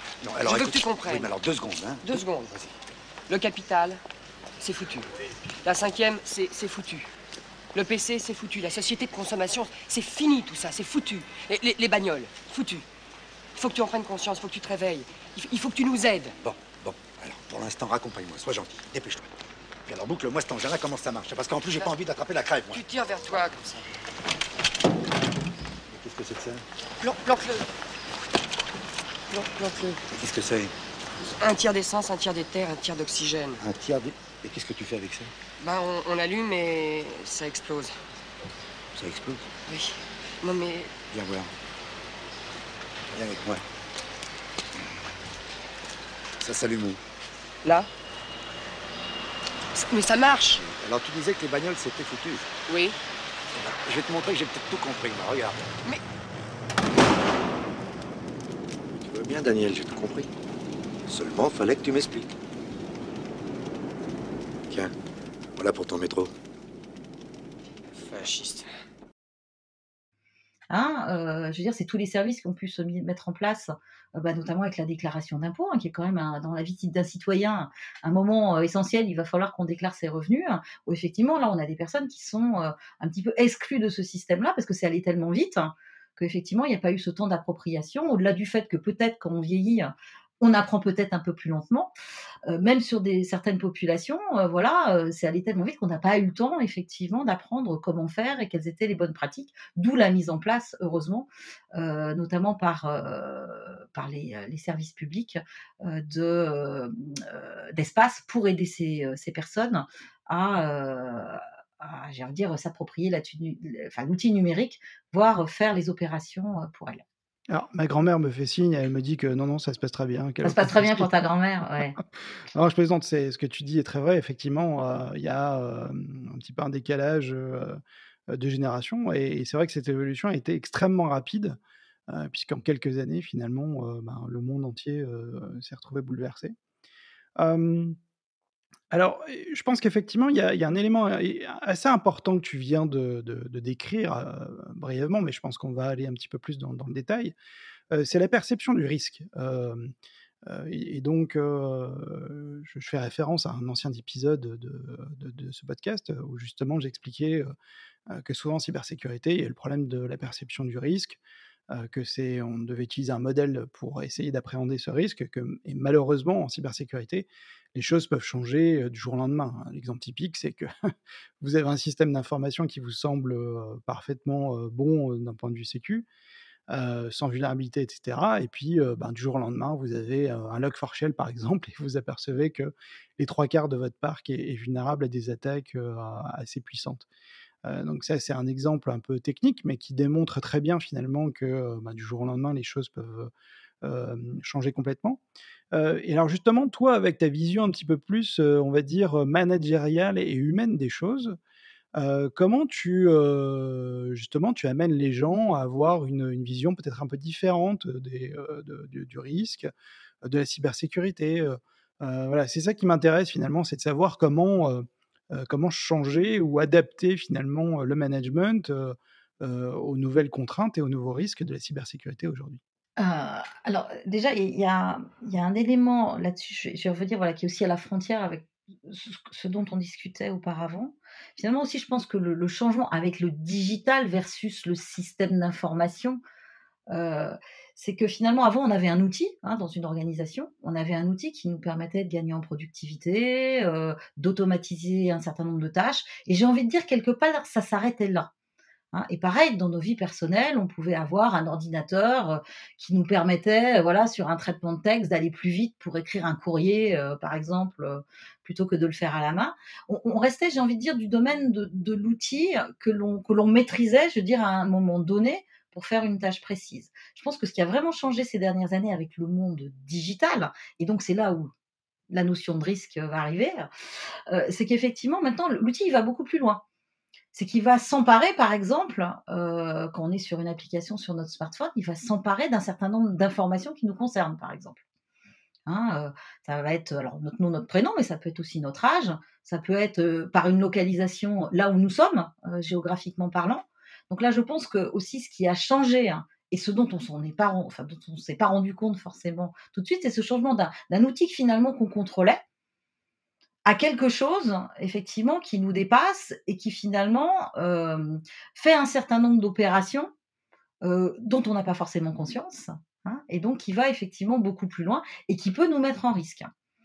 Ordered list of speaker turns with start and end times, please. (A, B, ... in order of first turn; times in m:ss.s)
0:00.2-0:02.7 A
0:00.4-0:01.3 B
0:02.0-0:02.5 B
0:03.3-0:04.0 B
0:04.6-0:05.1 B
0:05.6-0:07.1 B
0:07.7-0:12.8 B
0:13.6-0:16.4 B
0:16.4-0:19.3 A
0:19.9-0:22.8 A
0:22.7-0:23.9 B
0:25.9-0:26.6 A
0:27.0-0:27.7 B
0:29.3-0:30.0 B
0:30.1-0:30.7 A
0:31.4-0:33.6 B
0:33.6-0:35.3 A
0:35.6-0:38.0 B
0:39.0-0:39.5 A
0:39.7-0:40.9 B
0:41.1-0:41.5 A
0:43.1-0:43.6 A
0:46.4-0:47.0 A
0:49.7-0:50.6 B
0:50.6-0:52.5 A
0:52.7-0:53.0 B
0:53.5-0:55.7 A
0:59.0-1:00.3 A
1:01.1-1:02.4 A
1:05.6-1:06.3 A
1:07.9-1:08.7 B
1:10.7-1:31.9 C
1:32.5-1:57.0 C
1:57.5-2:01.1 D
2:00.4-2:02.0 C
2:02.5-2:16.6 D
2:17.4-2:18.0 D
2:18.9-2:27.4 D
2:27.9-2:29.9 D
2:30.5-2:37.5 D
2:38.1-2:41.2 D
2:41.7-2:50.7 D
2:51.4-2:56.1 D
2:56.7-3:07.1 D
3:07.6-3:13.3 D
3:13.8-3:15.2 D
3:15.7-3:21.4 D
3:22.0-3:29.7 D
3:30.2-3:42.6 D
3:43.0-3:56.2 C
3:56.9-4:08.3 C
4:08.9-4:31.5 C
4:32.1-4:33.7 C
4:34.3-4:36.6 C
4:37.3-4:44.8 C
4:45.7-5:02.4 C
5:03.7-5:10.1 C
5:10.8-5:16.5 C